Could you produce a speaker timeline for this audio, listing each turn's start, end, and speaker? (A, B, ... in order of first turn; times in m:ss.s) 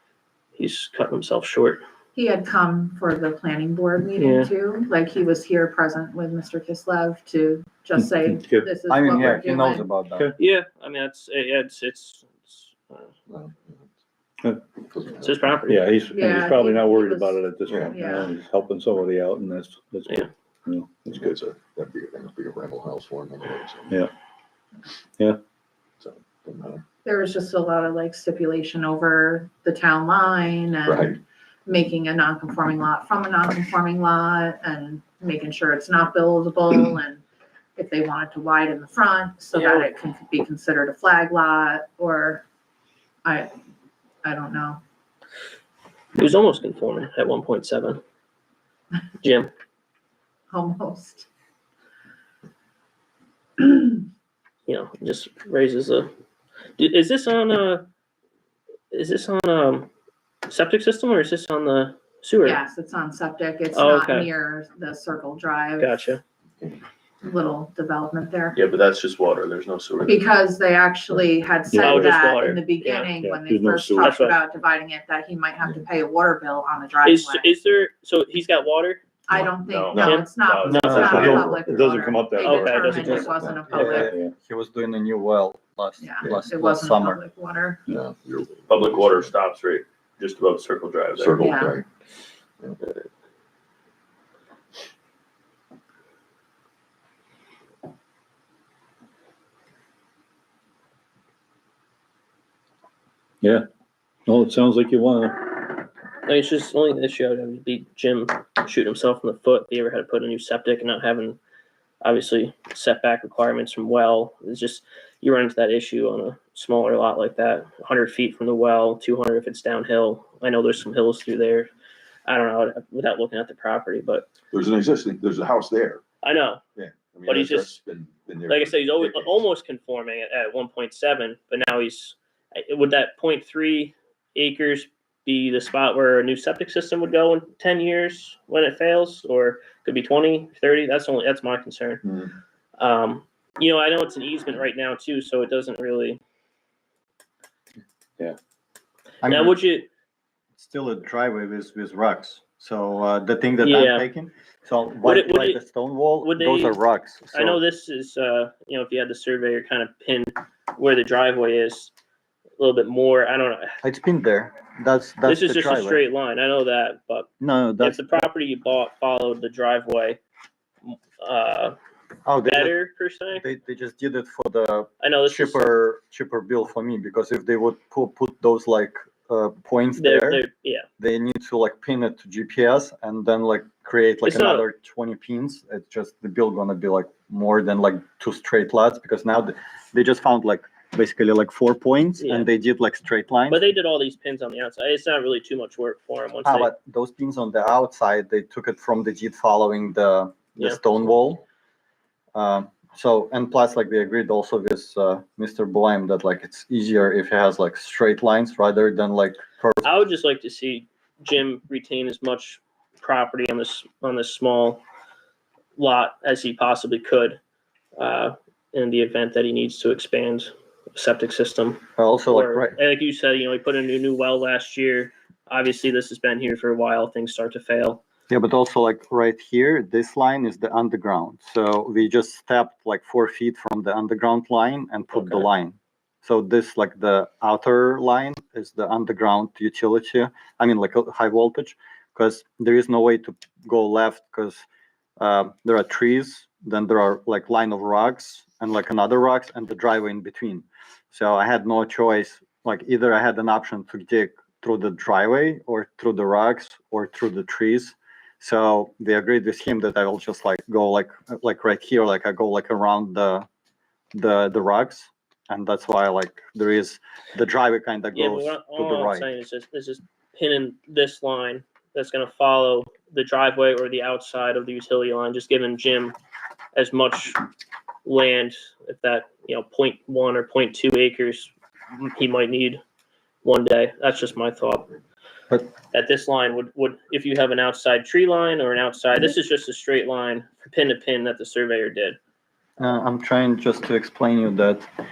0:00.6-0:01.8 A
0:02.1-0:09.9 B
0:04.2-0:04.5 A
0:08.0-0:09.4 C
0:08.9-0:10.3 D
0:10.4-0:13.1 A
0:13.3-0:13.9 E
0:14.8-0:15.6 E
0:15.2-0:15.9 A
0:15.7-0:21.3 C
0:16.1-0:18.3 B
0:17.6-0:18.0 E
0:21.1-0:23.9 E
0:26.0-0:26.8 E
0:27.0-0:31.1 B
0:30.8-0:31.2 E
0:31.7-0:37.2 B
0:37.8-0:42.4 B
0:39.5-0:39.9 A
0:43.2-0:43.5 B
0:44.2-0:44.8 B
0:46.2-0:48.0 A
0:49.2-0:49.5 A
0:50.5-0:51.2 B
0:53.6-0:54.0 B
0:54.6-0:56.1 A
0:56.8-0:57.9 A
0:58.9-0:59.9 A
1:00.5-1:02.6 A
1:02.4-1:06.1 B
1:03.7-1:04.3 A
1:05.8-1:06.2 A
1:07.2-1:08.6 B
1:08.5-1:10.1 F
1:10.0-1:17.5 B
1:11.7-1:12.1 C
1:11.8-1:13.1 A
1:13.2-1:14.3 C
1:14.0-1:14.4 A
1:17.0-1:19.0 A
1:19.3-1:24.1 B
1:19.3-1:20.2 E
1:19.7-1:21.3 F
1:20.0-1:20.3 A
1:20.7-1:24.3 C
1:20.7-1:21.5 D
1:22.4-1:23.3 A
1:23.2-1:23.8 E
1:23.7-1:27.2 D
1:26.0-1:27.8 B
1:27.9-1:29.3 E
1:28.7-1:31.4 F
1:31.2-1:31.8 E
1:31.4-1:31.8 B
1:43.4-1:43.7 C
1:44.2-1:45.5 C
1:46.2-1:51.4 A
1:52.0-2:01.7 A
2:02.2-2:04.3 A
2:04.5-2:06.0 E
2:06.2-2:06.6 A
2:06.8-2:09.4 E
2:07.2-2:07.7 A
2:08.5-2:22.0 A
2:22.0-2:22.3 E
2:22.8-2:26.2 A
2:29.2-2:29.5 D
2:29.2-2:29.9 A
2:30.6-2:37.6 D
2:33.6-2:34.1 A
2:35.0-2:35.6 A
2:36.2-2:36.8 A
2:37.3-2:41.9 A
2:42.6-2:43.7 A
2:43.8-2:46.0 D
2:45.2-2:47.3 A
2:47.4-2:48.1 D
2:47.8-2:50.2 A
2:50.8-2:51.7 A
2:52.2-2:52.7 D
2:52.4-2:53.4 A
2:53.3-3:00.4 D
2:55.0-2:55.7 A
3:00.0-3:00.9 A
3:01.0-3:13.6 D
3:04.2-3:04.7 A
3:12.2-3:12.5 A
3:13.5-3:16.7 A
3:16.4-3:21.4 D
3:22.3-3:29.9 D
3:29.8-3:34.8 A
3:35.8-3:37.4 A
3:38.0-3:48.0 A
3:42.0-3:42.8 D
3:48.3-4:04.6 D
3:55.1-3:55.5 A
4:05.2-4:23.4 D
4:24.1-4:29.3 D
4:28.1-4:36.1 A
4:36.7-4:37.4 A
4:38.0-4:42.8 A
4:43.4-4:44.9 A
4:45.9-4:52.2 A
4:52.8-4:54.9 D